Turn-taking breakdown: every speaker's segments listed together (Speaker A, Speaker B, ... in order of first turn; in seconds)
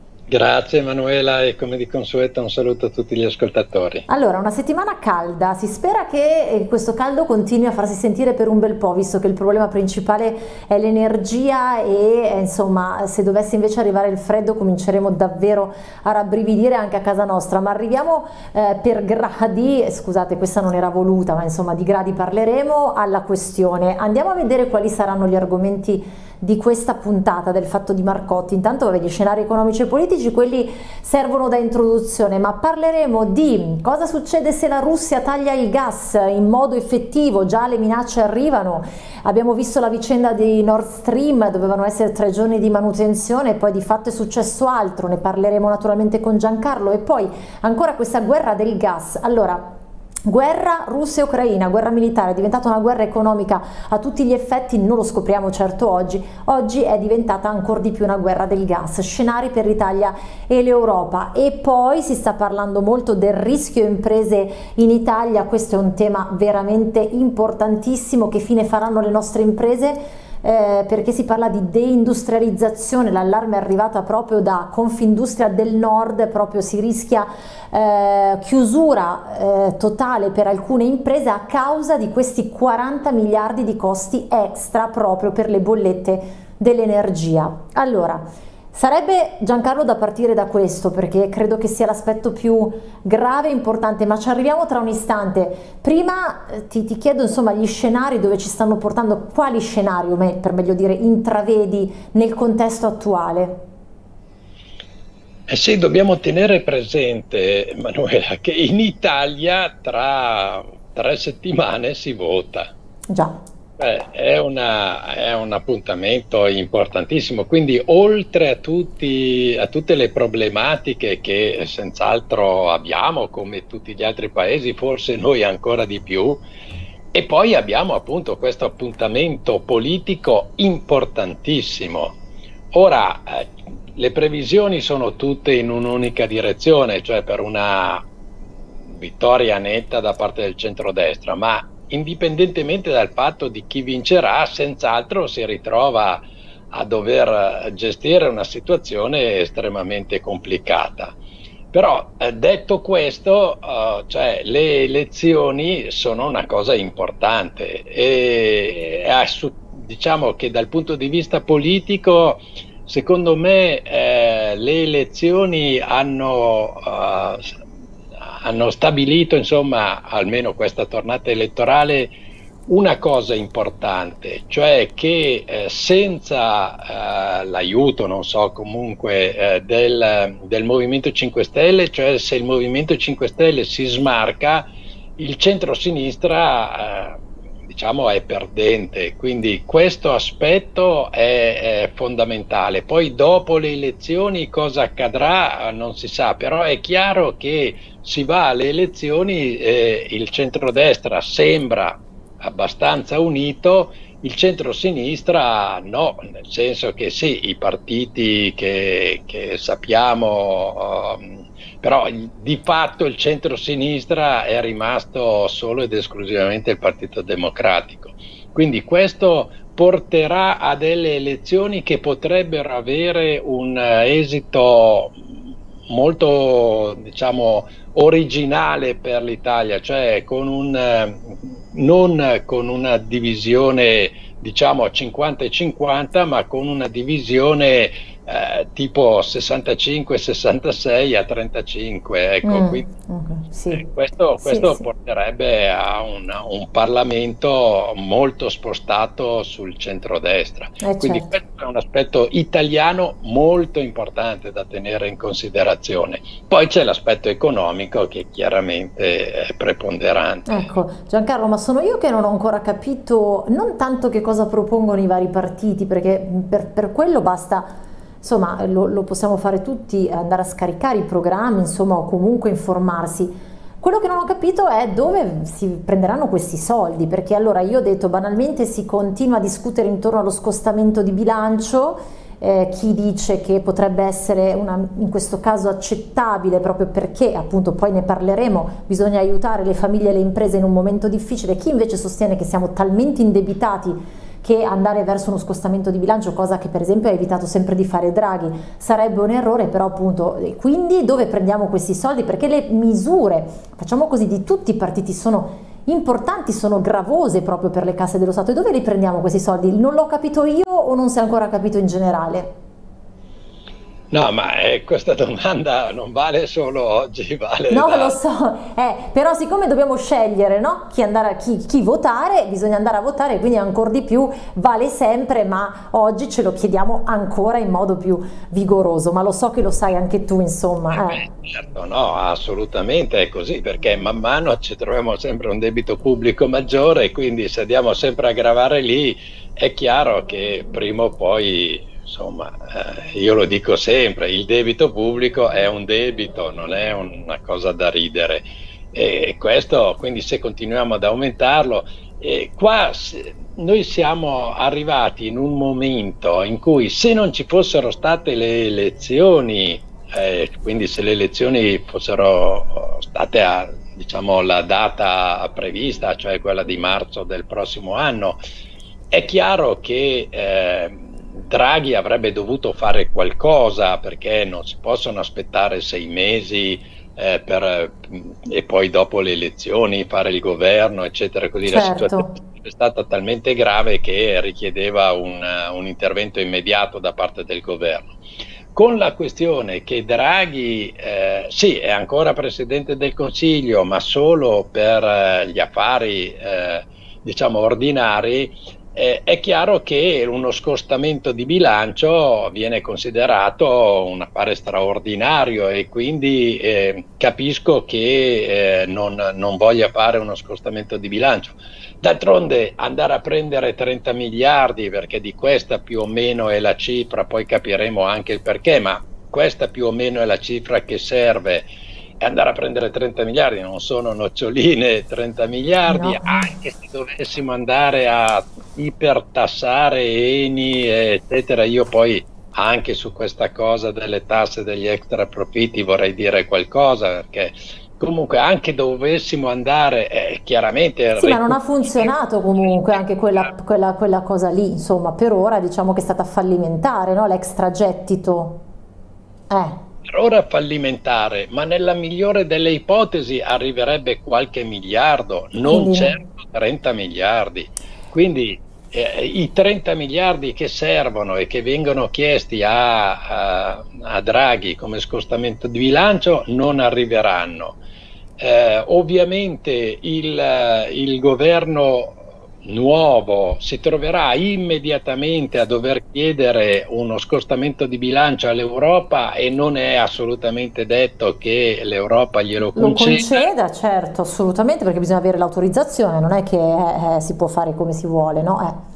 Speaker A: 0.3-4.0, 105.5-112.7, 113.8-126.4, 127.1-132.2, 132.7-138.1, 138.9-146.2, 146.7-151.1, 151.7-167.6, 168.2-172.1, 172.7-225.3, 225.9-242.9, 243.7-260.6, 314.1-318.1, 330.9-368.4, 369.1-388.2, 388.7-421.6, 422.2-443.5, 450.1-467.8, 468.4-483.5
Speaker B: 4.1-49.6, 50.2-103.6, 113.1-113.4, 242.4-243.9, 244.4-244.8, 250.8-251.3, 260.4-312.5, 317.7-331.3, 381.6-382.4, 425.9-426.5, 441.1-448.6, 449.5-449.8, 455.6-456.1, 482.7-488.8